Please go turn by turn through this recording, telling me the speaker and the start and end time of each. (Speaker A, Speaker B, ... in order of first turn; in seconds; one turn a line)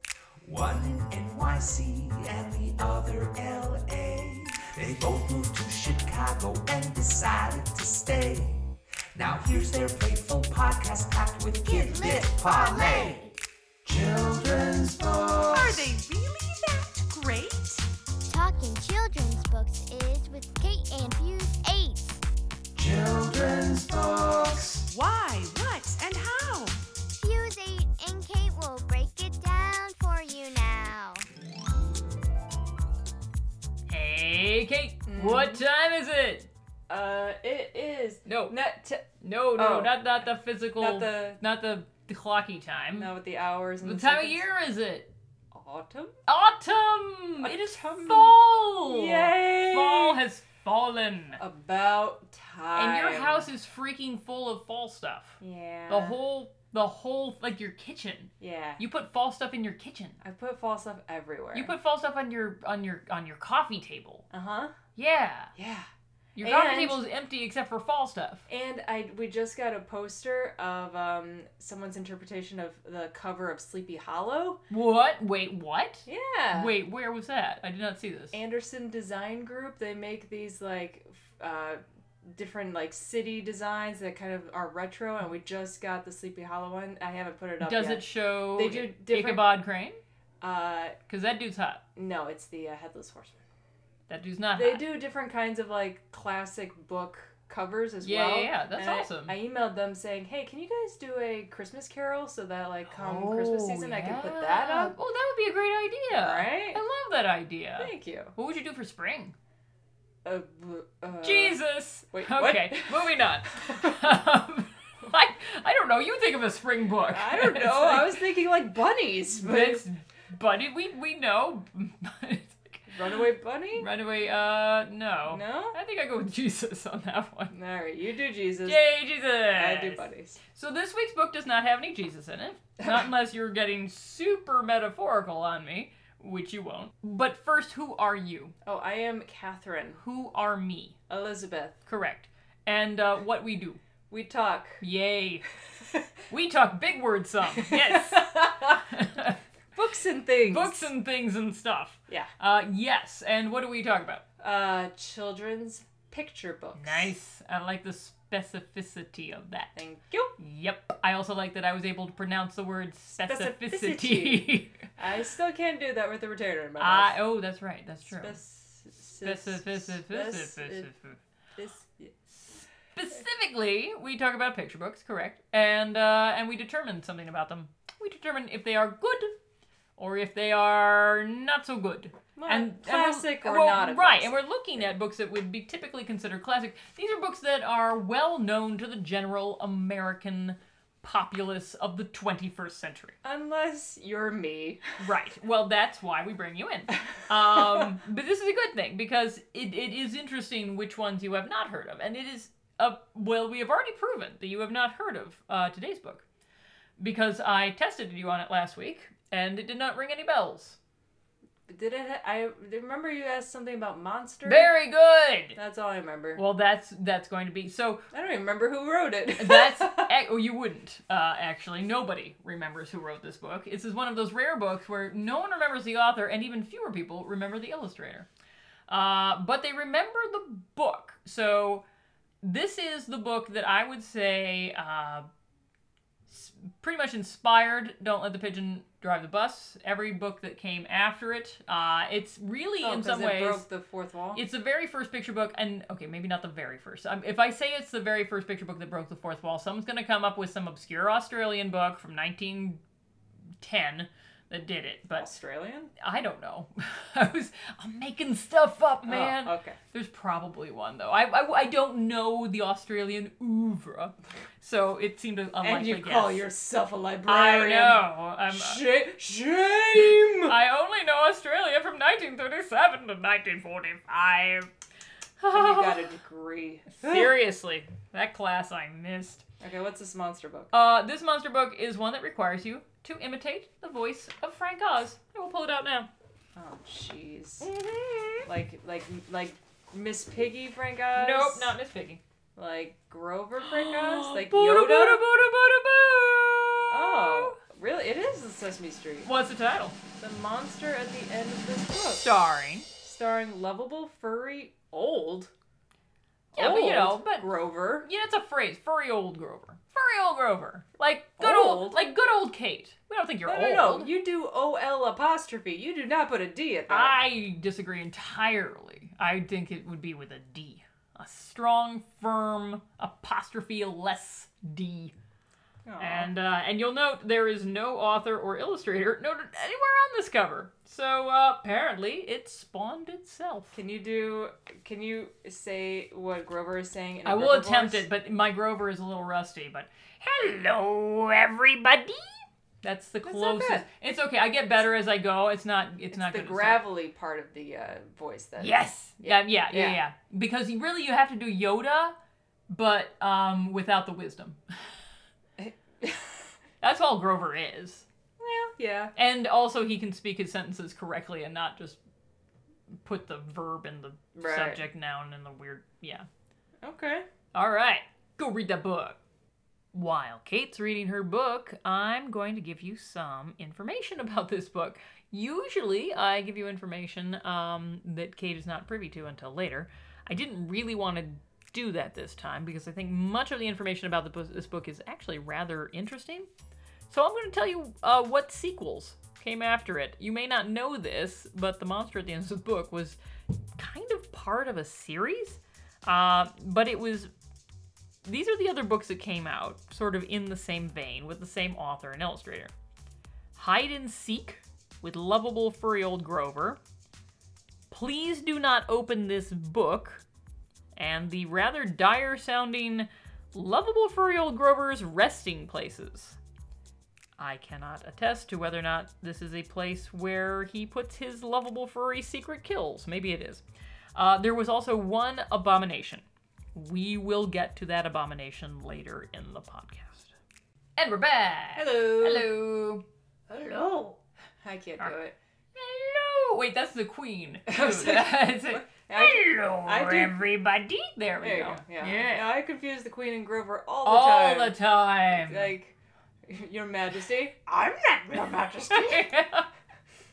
Speaker A: 0.4-13.3
Speaker B: 11.7-13.3
Speaker A: 13.8-15.9
Speaker C: 15.6-17.8
Speaker B: 18.3-22.2
Speaker A: 22.7-24.9
Speaker C: 24.9-26.8
Speaker B: 27.1-31.2
Speaker D: 33.9-36.5
Speaker E: 35.0-35.6
Speaker E: 36.9-40.0
Speaker D: 38.2-38.5
Speaker D: 39.2-43.1
Speaker E: 40.8-41.4
Speaker E: 43.0-44.4
Speaker D: 43.8-45.1
Speaker E: 45.5-46.1
Speaker D: 46.3-51.4
Speaker E: 47.4-50.2
Speaker E: 51.4-53.5
Speaker D: 52.8-60.2
Speaker E: 55.4-56.2
Speaker E: 58.4-58.8
Speaker E: 60.2-61.7
Speaker D: 61.5-64.3
Speaker E: 64.3-64.8
Speaker D: 65.0-65.5
Speaker E: 65.5-65.9
Speaker D: 66.4-68.5
Speaker E: 66.4-67.0
Speaker E: 68.5-74.6
Speaker D: 74.7-78.3
Speaker E: 76.1-76.7
Speaker E: 78.3-88.0
Speaker D: 87.6-90.0
Speaker E: 88.5-89.5
Speaker E: 90.4-91.0
Speaker D: 91.1-91.8
Speaker E: 92.0-93.4
Speaker D: 94.1-94.8
Speaker E: 94.5-105.0
Speaker D: 98.0-99.3
Speaker D: 102.9-109.3
Speaker E: 106.1-106.8
Speaker E: 107.8-108.3
Speaker E: 110.2-111.6
Speaker D: 111.2-118.2
Speaker E: 112.1-114.1
Speaker E: 117.1-119.8
Speaker D: 119.3-122.9
Speaker E: 122.9-123.9
Speaker D: 123.8-127.5
Speaker E: 125.3-125.8
Speaker E: 127.5-128.8
Speaker D: 128.7-138.6
Speaker E: 129.5-130.4
Speaker E: 138.7-140.0
Speaker D: 140.0-141.0
Speaker E: 141.1-141.8
Speaker D: 141.9-143.8
Speaker E: 144.1-144.8
Speaker D: 144.8-145.5
Speaker D: 146.3-149.4
Speaker E: 147.6-148.8
Speaker E: 149.8-150.9
Speaker D: 150.4-154.2
Speaker E: 154.4-157.1
Speaker D: 156.8-159.7
Speaker E: 159.8-160.3
Speaker D: 160.4-164.8
Speaker E: 163.1-164.5
Speaker E: 165.0-167.1
Speaker D: 166.8-168.4
Speaker E: 168.1-170.9
Speaker D: 169.2-171.2
Speaker E: 171.6-172.5
Speaker D: 172.9-179.3
Speaker D: 180.0-193.2
Speaker E: 182.3-184.4
Speaker E: 193.2-194.8
Speaker D: 195.0-206.2
Speaker D: 207.0-210.8
Speaker E: 211.7-214.7
Speaker D: 214.4-215.6
Speaker E: 215.6-216.4
Speaker D: 216.4-218.1
Speaker E: 218.1-220.1
Speaker D: 219.4-228.3
Speaker D: 228.9-231.8
Speaker D: 232.4-235.3
Speaker D: 236.3-243.7
Speaker E: 242.8-244.4
Speaker D: 244.3-252.8
Speaker D: 253.6-255.3
Speaker E: 255.2-255.9
Speaker D: 256.0-266.4
Speaker E: 259.1-259.8
Speaker E: 265.6-270.5
Speaker D: 267.2-268.8
Speaker D: 269.9-274.7
Speaker D: 275.4-276.1
Speaker E: 275.5-277.3
Speaker D: 276.9-279.4
Speaker E: 279.6-280.7
Speaker D: 280.7-286.1
Speaker E: 286.6-287.7
Speaker D: 287.6-288.5
Speaker E: 288.4-291.8
Speaker D: 291.1-292.2
Speaker E: 292.6-295.2
Speaker D: 293.6-297.6
Speaker E: 296.9-299.3
Speaker D: 299.2-299.9
Speaker E: 300.2-302.3
Speaker D: 302.2-302.9
Speaker E: 303.0-305.5
Speaker D: 306.5-307.5
Speaker E: 306.5-308.1
Speaker D: 308.0-314.1
Speaker E: 311.4-312.0
Speaker E: 313.4-317.2
Speaker D: 316.9-325.1
Speaker E: 325.8-326.3
Speaker D: 326.0-333.8
Speaker E: 333.7-338.0
Speaker D: 337.2-346.8
Speaker E: 343.2-343.9
Speaker E: 346.1-350.0
Speaker D: 348.6-352.1
Speaker D: 352.7-354.6
Speaker E: 355.6-356.5
Speaker D: 356.8-358.0
Speaker E: 358.4-359.1
Speaker D: 359.1-362.0
Speaker D: 363.0-366.2
Speaker E: 364.4-364.8
Speaker E: 366.8-367.2
Speaker D: 367.5-369.2
Speaker D: 369.9-386.5
Speaker D: 387.1-393.2
Speaker D: 393.8-397.3
Speaker D: 398.2-402.7
Speaker D: 403.6-406.8
Speaker D: 407.9-410.2
Speaker D: 410.9-416.4
Speaker D: 417.4-423.6
Speaker D: 424.1-426.2
Speaker D: 426.8-430.3
Speaker D: 431.0-433.0
Speaker E: 431.8-432.5
Speaker E: 433.5-435.3
Speaker D: 435.8-442.5
Speaker E: 437.7-440.4
Speaker E: 441.4-444.8
Speaker D: 444.0-445.7
Speaker E: 445.3-445.9
Speaker E: 446.4-449.3
Speaker D: 448.9-449.7